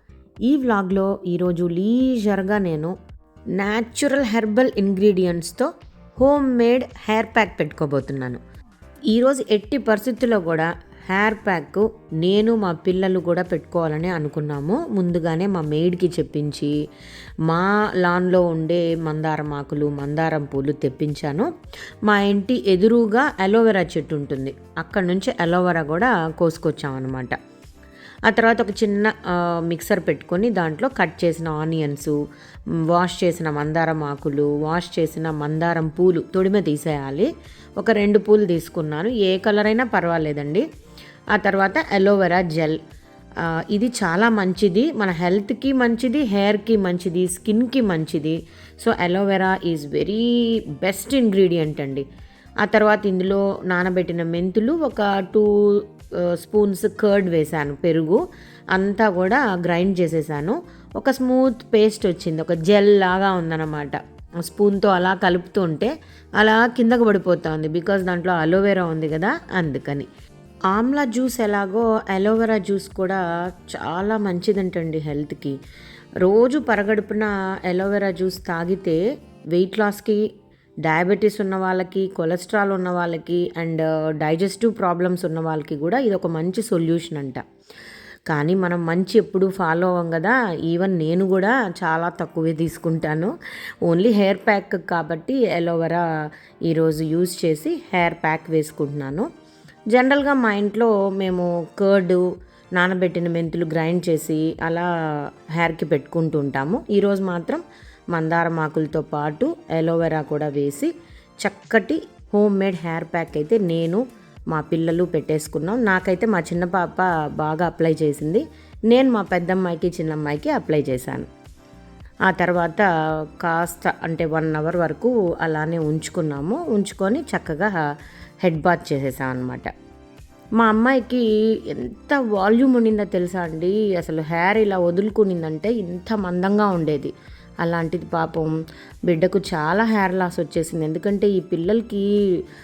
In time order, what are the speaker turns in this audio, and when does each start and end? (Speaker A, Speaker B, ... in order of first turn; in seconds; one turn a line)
Speaker A: 0.5-2.9
Speaker A: 3.6-8.4
Speaker A: 9.1-16.7
Speaker A: 17.5-21.5
Speaker A: 22.1-27.4
Speaker A: 28.3-32.2
Speaker A: 32.9-40.6
Speaker A: 41.4-42.8
Speaker A: 43.7-50.2
Speaker A: 50.8-52.0
Speaker A: 52.6-58.2
Speaker A: 58.7-70.1
Speaker A: 70.7-75.6
Speaker A: 76.2-79.0
Speaker A: 79.5-80.2
Speaker A: 80.8-87.4
Speaker A: 88.3-93.3
Speaker A: 93.9-96.0
Speaker A: 96.7-99.3
Speaker A: 99.9-102.2
Speaker A: 102.8-104.9
Speaker A: 105.5-121.3
Speaker A: 122.3-122.9
Speaker A: 123.4-127.8
Speaker A: 128.4-129.7
Speaker A: 130.6-138.5
Speaker A: 139.1-142.1